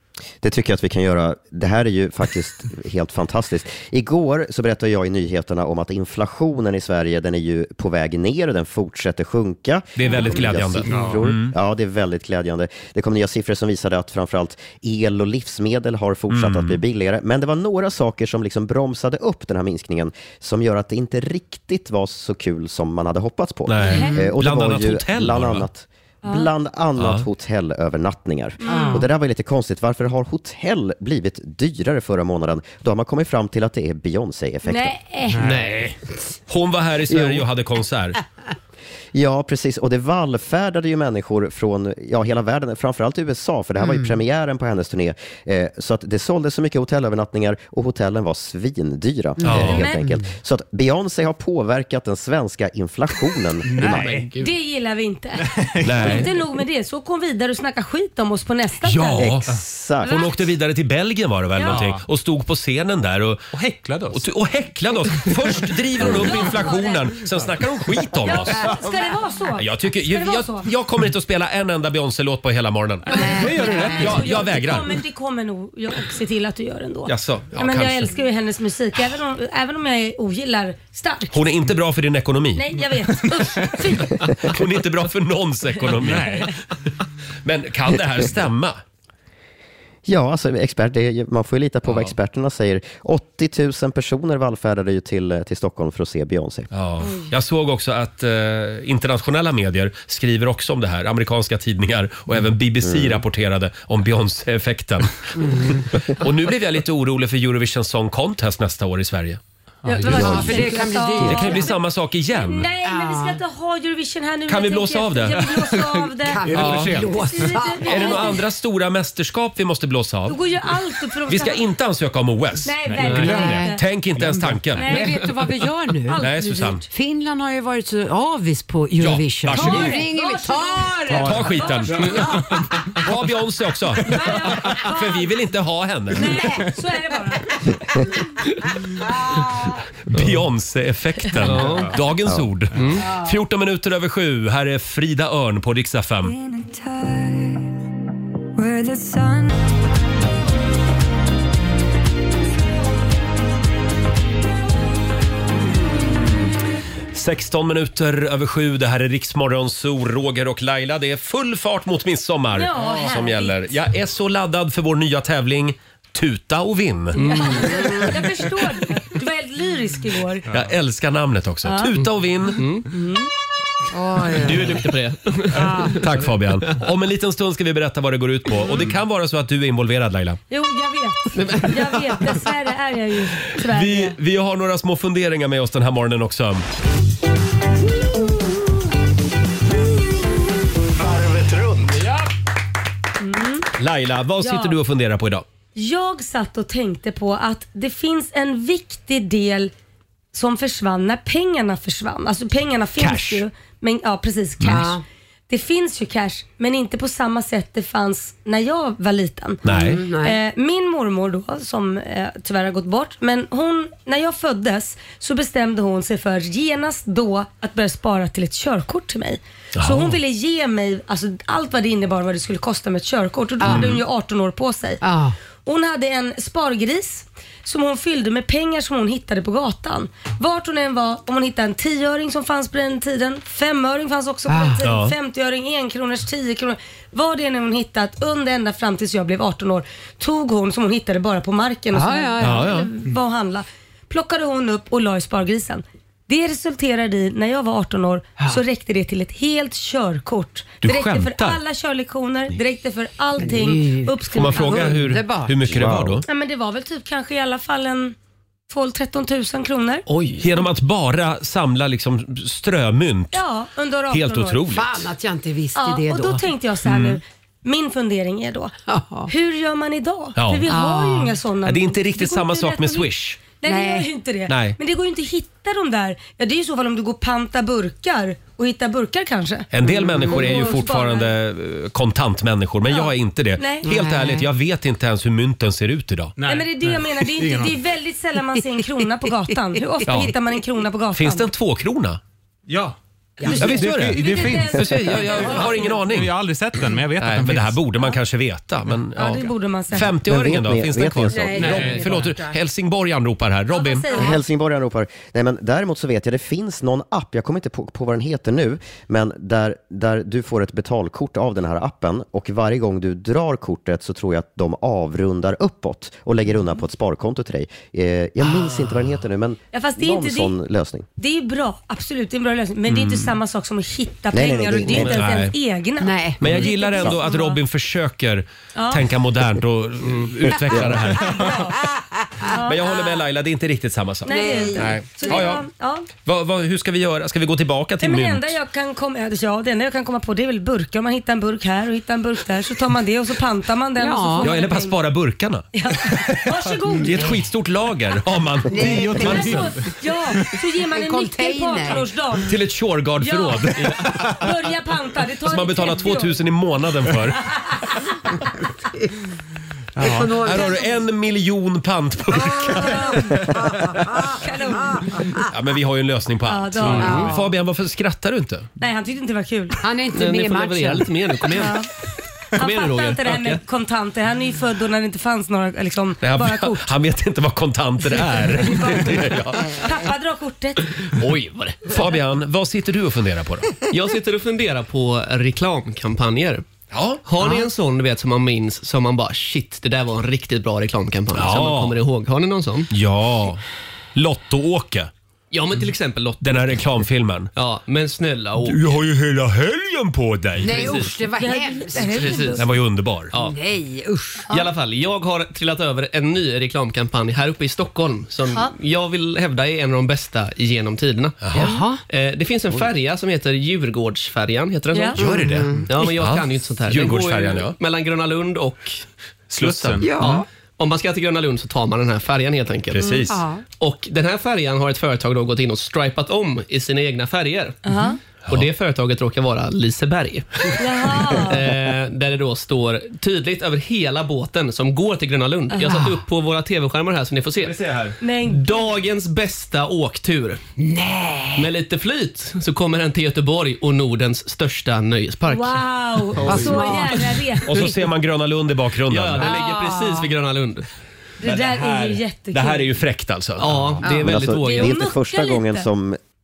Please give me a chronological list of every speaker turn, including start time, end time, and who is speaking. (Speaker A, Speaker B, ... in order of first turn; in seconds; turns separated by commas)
Speaker A: 0.4-35.0, Speaker B: 10.0-11.5, Speaker C: 10.8-11.2, Speaker B: 16.3-16.8, Speaker B: 23.7-25.7, Speaker D: 23.9-24.2, Speaker D: 26.2-26.5, Speaker B: 27.0-27.2, Speaker D: 28.6-29.1, Speaker E: 28.6-29.1, Speaker D: 34.7-35.5, Speaker C: 35.3-35.9, Speaker F: 35.4-35.9, Speaker B: 36.5-38.2, Speaker A: 37.1-37.5, Speaker A: 39.1-54.0, Speaker E: 43.8-44.1, Speaker B: 49.4-49.8, Speaker E: 49.4-49.7, Speaker D: 49.7-50.0, Speaker C: 53.6-54.3, Speaker F: 53.8-54.5, Speaker D: 54.4-59.2, Speaker C: 55.5-56.3, Speaker B: 55.8-56.3, Speaker B: 59.0-59.5, Speaker A: 59.2-60.1, Speaker D: 60.0-60.5, Speaker B: 60.0-63.5, Speaker D: 61.6-61.8, Speaker C: 61.6-62.0, Speaker C: 63.5-64.2, Speaker B: 64.1-68.7, Speaker D: 66.0-67.1, Speaker D: 68.2-70.7, Speaker B: 69.6-73.1, Speaker D: 73.0-81.4, Speaker E: 73.1-74.3, Speaker C: 73.2-74.4, Speaker B: 74.0-74.9, Speaker B: 77.1-78.1, Speaker B: 81.3-82.8, Speaker D: 82.5-84.2, Speaker B: 84.2-86.5, Speaker C: 86.0-86.5, Speaker D: 86.2-86.5, Speaker B: 87.4-88.8, Speaker A: 90.1-96.7, Speaker B: 96.7-109.4, Speaker A: 102.8-103.2, Speaker E: 105.4-105.8, Speaker D: 109.8-111.8, Speaker C: 109.9-110.6, Speaker E: 110.0-111.7, Speaker A: 110.1-110.5, Speaker B: 111.2-112.7, Speaker D: 112.3-116.5, Speaker E: 112.8-113.4, Speaker B: 114.5-115.5, Speaker C: 115.5-117.5, Speaker E: 116.3-118.4, Speaker B: 116.5-117.0, Speaker D: 117.1-118.4, Speaker B: 117.8-120.4, Speaker D: 120.3-121.6, Speaker B: 121.3-124.9, Speaker D: 122.6-123.8, Speaker C: 122.9-125.0, Speaker E: 123.2-123.7, Speaker D: 124.8-125.2, Speaker E: 124.8-126.2, Speaker D: 126.1-126.8, Speaker B: 126.2-126.8, Speaker E: 126.9-131.7, Speaker B: 129.0-130.0, Speaker D: 129.5-132.4, Speaker B: 131.1-132.4, Speaker C: 131.2-132.6, Speaker B: 133.0-136.5, Speaker D: 134.0-135.3, Speaker D: 136.1-137.6, Speaker B: 140.1-146.4, Speaker F: 141.4-142.0, Speaker C: 141.5-141.9, Speaker F: 142.8-143.1, Speaker G: 146.2-147.7, Speaker G: 148.6-149.5, Speaker B: 155.9-156.2, Speaker B: 157.1-167.2, Speaker D: 162.5-163.7, Speaker D: 167.1-170.4, Speaker F: 167.2-168.1, Speaker B: 170.5-172.6, Speaker D: 171.6-171.9, Speaker F: 172.0-172.9, Speaker D: 172.9-173.3, Speaker E: 173.9-174.8, Speaker F: 174.3-176.0, Speaker D: 175.6-175.9, Speaker B: 175.9-180.4, Speaker D: 180.5-184.2, Speaker F: 181.3-182.0, Speaker B: 183.6-186.7, Speaker D: 193.2-193.7, Speaker B: 193.8-195.4, Speaker D: 194.4-194.8, Speaker D: 195.8-199.7, Speaker D: 200.3-205.0, Speaker B: 203.0-203.4, Speaker E: 204.6-205.0, Speaker D: 205.5-209.6, Speaker B: 209.6-210.0, Speaker E: 209.7-210.4, Speaker D: 210.2-225.0, Speaker B: 219.8-220.2, Speaker E: 223.6-224.0, Speaker B: 223.6-224.0, Speaker E: 225.0-225.3, Speaker D: 225.7-254.9, Speaker E: 234.5-234.8, Speaker B: 234.8-235.1, Speaker E: 241.9-242.9, Speaker B: 242.4-242.9, Speaker B: 250.8-251.6, Speaker E: 253.4-255.9, Speaker B: 254.3-256.2, Speaker A: 255.7-256.2, Speaker D: 256.3-258.1, Speaker D: 258.7-260.1, Speaker F: 260.1-260.5, Speaker B: 260.4-263.4, Speaker D: 263.3-264.6, Speaker B: 264.1-265.1, Speaker E: 264.7-266.5, Speaker D: 265.8-268.7, Speaker B: 266.9-267.2, Speaker E: 268.9-269.3, Speaker D: 269.3-273.1, Speaker B: 270.4-270.6, Speaker E: 270.7-271.4, Speaker B: 271.6-273.4, Speaker D: 273.6-279.7, Speaker E: 273.6-274.1, Speaker B: 274.5-274.8, Speaker B: 279.7-286.4, Speaker E: 279.8-280.8, Speaker D: 280.3-281.3, Speaker D: 282.9-283.9, Speaker E: 283.8-284.5, Speaker C: 286.4-287.8, Speaker D: 286.4-291.5, Speaker B: 290.1-290.3, Speaker B: 291.1-292.2, Speaker C: 292.7-297.8, Speaker E: 293.4-293.8, Speaker D: 293.5-294.9, Speaker B: 293.6-296.3, Speaker D: 295.4-295.7, Speaker B: 297.2-304.1, Speaker D: 299.2-300.1, Speaker A: 300.2-301.9, Speaker E: 301.3-302.6, Speaker C: 301.6-302.3, Speaker D: 303.7-304.3, Speaker E: 304.1-304.4, Speaker A: 304.1-321.1, Speaker D: 319.7-320.6, Speaker D: 321.2-327.6, Speaker B: 322.9-323.4, Speaker A: 324.3-325.3, Speaker B: 324.9-325.5, Speaker E: 326.0-326.7, Speaker B: 326.4-331.6, Speaker D: 328.8-329.0, Speaker F: 330.0-330.9, Speaker D: 331.3-331.8, Speaker D: 332.5-332.8, Speaker B: 332.6-335.6, Speaker D: 334.2-336.1, Speaker E: 334.3-335.4, Speaker B: 336.2-338.6, Speaker D: 338.0-344.9, Speaker E: 344.0-344.5, Speaker B: 344.4-346.5, Speaker D: 345.7-347.3, Speaker B: 347.0-349.8, Speaker E: 348.7-349.3, Speaker C: 348.8-349.9, Speaker D: 349.2-352.5, Speaker E: 350.9-352.1, Speaker B: 352.5-354.1, Speaker D: 353.2-356.4, Speaker B: 355.4-357.5, Speaker D: 357.5-357.9, Speaker C: 360.0-360.3, Speaker E: 360.0-360.9, Speaker B: 360.4-363.4, Speaker E: 362.4-365.2, Speaker D: 362.8-363.4, Speaker D: 364.4-365.1, Speaker B: 365.4-368.7, Speaker D: 366.5-367.3, Speaker F: 367.0-367.3, Speaker E: 367.0-367.3, Speaker C: 367.0-367.4, Speaker D: 368.8-369.8, Speaker E: 369.8-371.1, Speaker F: 370.1-371.8, Speaker D: 371.6-371.9, Speaker F: 372.6-373.6, Speaker D: 372.6-376.9, Speaker B: 376.2-379.8, Speaker D: 379.8-380.9, Speaker F: 381.0-382.0, Speaker B: 381.9-383.7, Speaker F: 383.9-386.6, Speaker B: 386.9-387.2, Speaker F: 387.2-392.9, Speaker E: 387.4-387.7, Speaker B: 391.3-392.0, Speaker B: 392.9-393.6, Speaker B: 394.1-395.1, Speaker F: 395.5-396.4, Speaker B: 396.4-397.5, Speaker F: 397.6-398.9, Speaker B: 398.6-401.1, Speaker E: 400.6-402.5, Speaker F: 400.6-401.1, Speaker D: 401.4-402.6, Speaker F: 401.9-402.6, Speaker B: 402.5-403.3, Speaker F: 403.3-403.6, Speaker E: 403.4-404.5, Speaker F: 404.5-419.1, Speaker B: 411.4-411.8, Speaker E: 411.5-412.0, Speaker D: 414.9-415.2, Speaker B: 415.2-417.8, Speaker E: 415.2-415.9, Speaker B: 419.5-420.0, Speaker C: 419.6-420.2, Speaker E: 420.0-420.5, Speaker F: 420.2-423.2, Speaker B: 422.9-423.4, Speaker D: 423.0-423.3, Speaker E: 423.3-423.6, Speaker F: 423.8-427.8, Speaker D: 427.9-428.2, Speaker F: 428.5-437.8, Speaker D: 430.8-431.6, Speaker D: 435.7-436.0, Speaker B: 437.6-438.2, Speaker D: 438.2-438.9, Speaker F: 438.4-440.6, Speaker E: 440.8-441.7, Speaker F: 441.6-447.3, Speaker D: 445.5-448.0, Speaker E: 446.4-447.2, Speaker B: 447.7-449.5, Speaker F: 449.1-450.9, Speaker E: 449.4-450.3, Speaker D: 451.4-452.9, Speaker B: 451.4-453.7, Speaker F: 453.6-455.0, Speaker E: 454.0-454.3, Speaker A: 454.1-456.2, Speaker D: 454.6-455.9